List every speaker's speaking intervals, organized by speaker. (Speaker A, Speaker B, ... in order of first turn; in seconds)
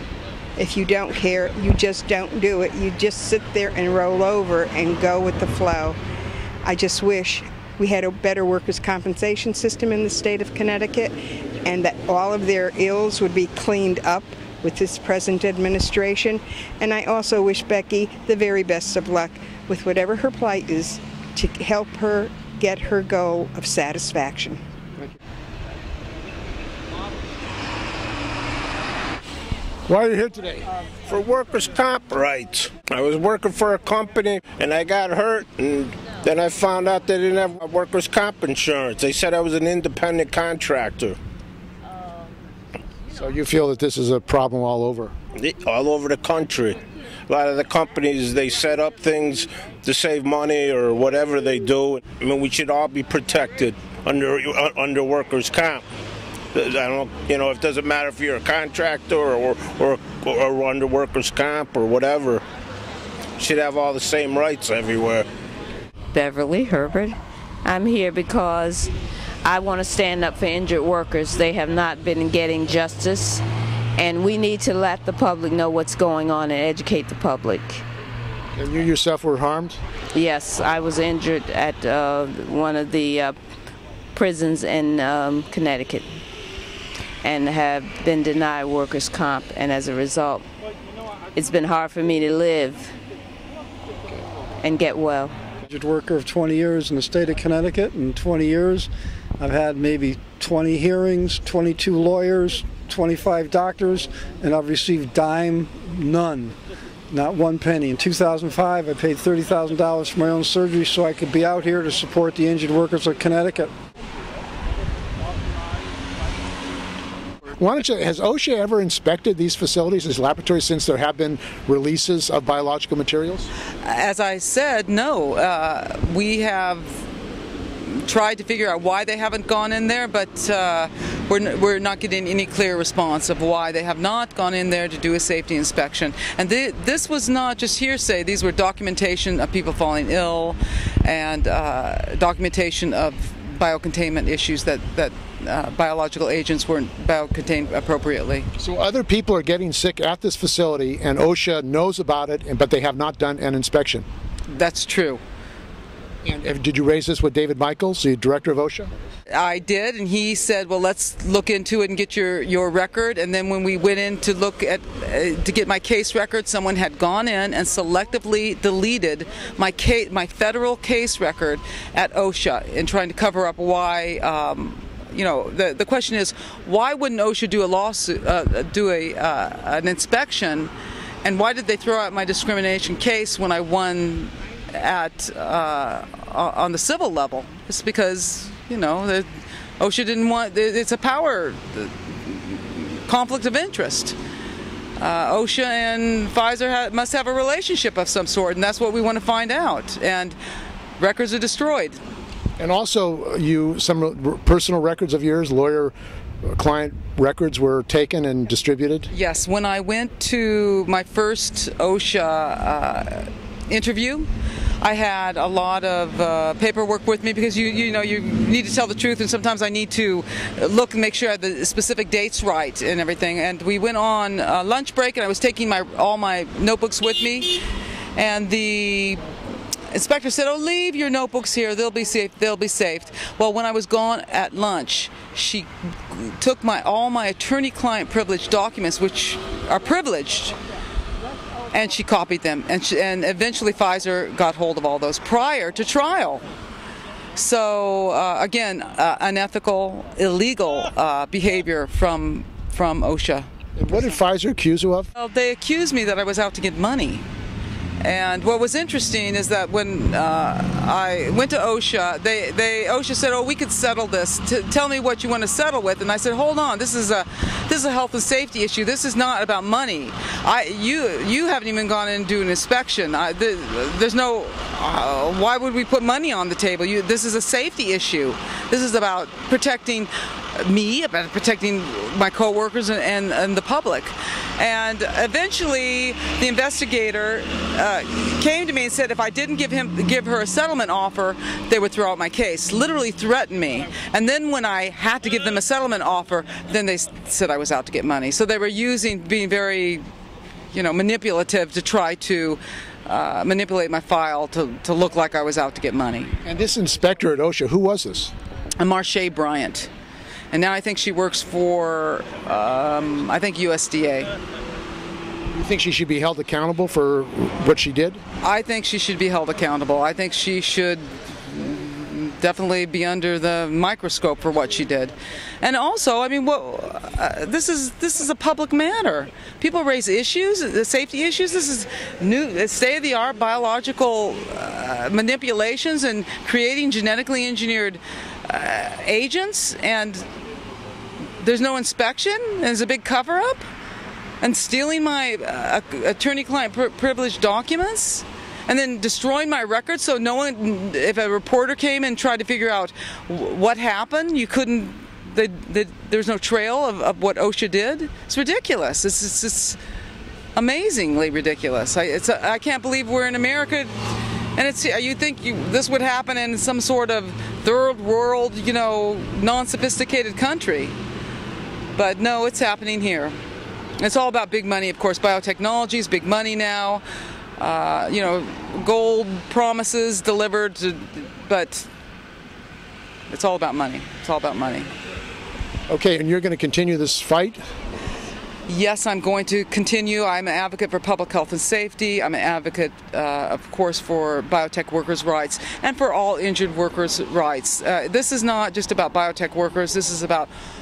Speaker A: 0.6-6.0, 6.6-24.6
Speaker B: 29.9-30.7, 43.1-45.1, 78.5-79.8, 117.5-123.5, 148.6-154.1, 156.2-158.9, 202.6-209.1, 253.8-255.1, 306.4-308.3, 315.5-318.2, 385.9-387.6
Speaker C: 31.1-41.2, 45.4-55.8, 56.5-62.4, 63.4-65.3
Speaker D: 66.1-68.9, 69.4-73.4, 74.0-77.8, 80.1-83.4, 84.2-86.1, 87.2-90.5, 91.3-93.0, 94.6-95.4
Speaker E: 95.7-106.6, 107.1-113.7
Speaker F: 123.8-127.0, 127.8-148.5, 154.5-155.2, 159.3-180.7, 181.2-194.2, 195.0-200.4, 201.0-202.0, 209.1-214.3, 214.8-227.6, 228.2-229.2, 229.9-240.6, 241.7-246.5, 247.3-253.5, 255.2-257.2, 258.0-300.0, 300.7-306.4, 308.8-309.9, 310.5-314.3, 318.4-340.2, 341.4-343.6, 344.4-359.8, 360.6-364.0, 364.6-371.0, 371.9-373.4, 374.0-377.0, 377.6-381.9, 383.3-384.9, 388.7-400.5